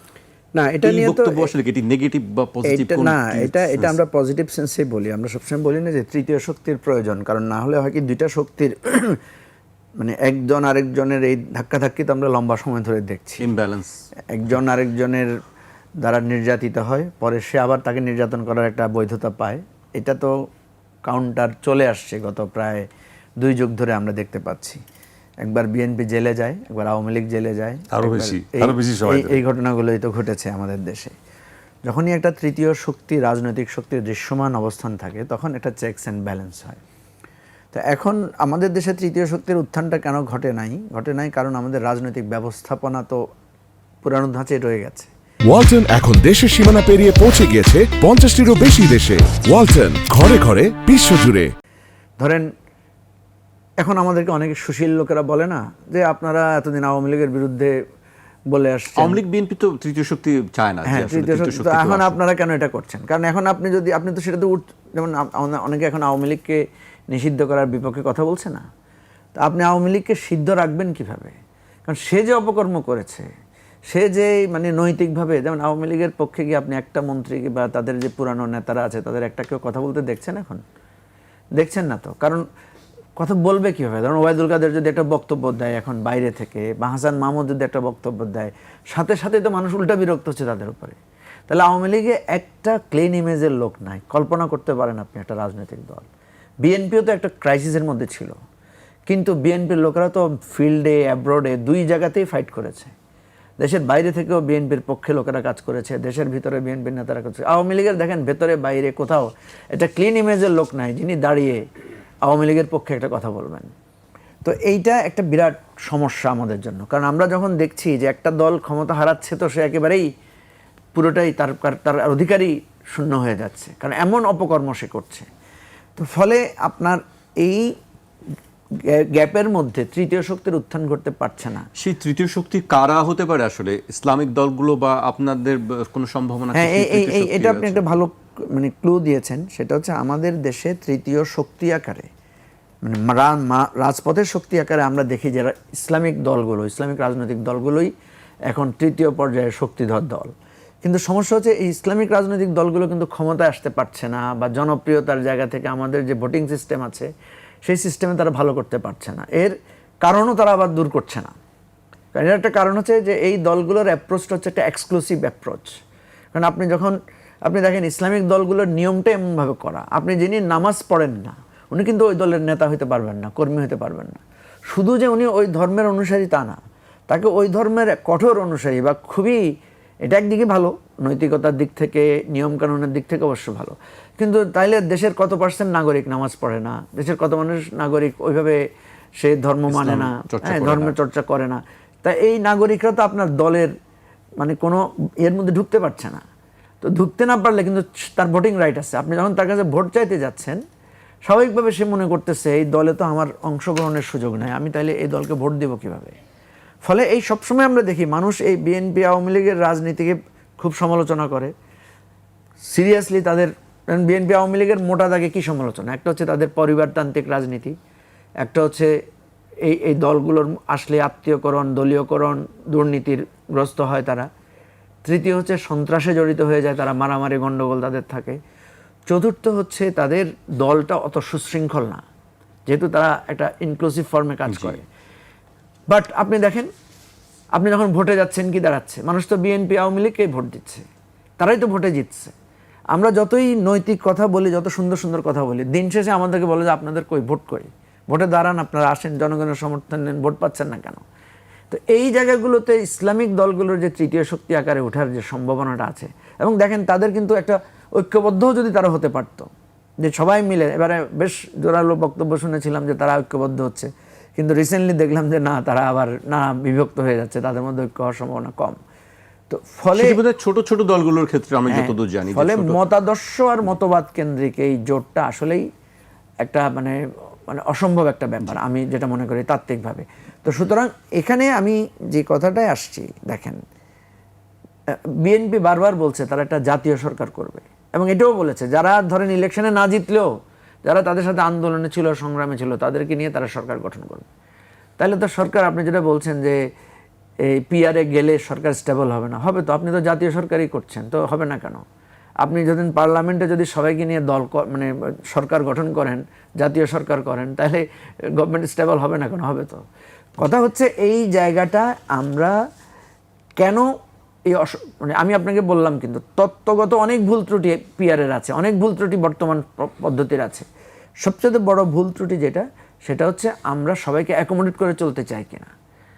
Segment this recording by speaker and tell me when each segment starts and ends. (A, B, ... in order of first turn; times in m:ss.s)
0:00.5-0:01.5 A
0:00.8-0:04.0 B
0:02.6-0:09.2 A
0:10.0-0:13.5 A
0:13.4-0:14.0 B
0:14.3-0:15.3 A
0:16.0-0:20.3 A
0:21.0-0:22.9 A
0:23.4-0:24.8 A
0:25.4-0:31.1 A
0:27.9-0:29.4 C
0:31.8-0:36.8 A
0:37.7-0:43.2 A
0:44.0-0:45.1 A
0:45.5-0:51.5 C
0:52.2-0:52.5 A
0:53.8-0:57.8 A
0:58.5-0:59.2 A
0:59.0-1:02.2 B
1:00.8-1:08.6 A
1:09.4-1:11.3 A
1:11.8-1:13.3 A
1:13.9-1:20.6 A
1:21.6-1:22.4 A
1:23.2-1:31.0 A
1:31.5-1:36.1 A
1:36.6-1:38.4 A
1:39.1-1:42.9 A
1:43.6-1:51.6 A
1:52.2-1:53.7 A
1:54.4-2:00.0 A
2:00.9-2:05.3 A
2:06.0-2:07.7 A
2:08.9-2:11.7 A
2:11.8-2:18.0 B
2:16.5-2:22.1 A
2:22.8-2:27.9 A
2:28.5-2:30.3 A
2:30.8-2:37.1 A
2:37.6-2:41.3 A
2:42.1-2:45.8 A
2:46.3-2:59.4 A
3:00.0-3:08.6 A
3:09.2-3:13.7 A
3:09.7-3:10.9 B
3:14.4-3:16.2 A
3:16.8-3:20.6 A
3:21.3-3:26.1 A
3:26.8-3:31.5 A
3:32.7-3:37.7 A
3:38.4-3:38.9 A
3:39.6-3:44.3 A
3:45.0-3:48.4 A
3:49.1-3:52.0 A
3:52.7-3:54.8 A
3:54.5-3:54.8 B
3:55.9-3:56.7 A
3:57.6-4:00.8 A
4:01.4-4:02.3 A
4:02.9-4:11.0 A
4:11.7-4:19.5 A
4:20.0-4:28.8 A
4:29.5-4:30.2 A
4:29.9-4:32.8 B
4:31.7-4:35.6 A
4:36.4-4:43.6 A
4:44.9-4:50.3 A
4:50.8-4:54.3 A
4:55.0-4:56.6 A
4:57.4-5:01.8 A
5:02.4-5:07.8 A
5:08.4-5:09.8 A
5:10.4-5:12.6 A
5:13.6-5:13.9 A
5:14.5-5:20.7 A
5:21.2-5:25.7 A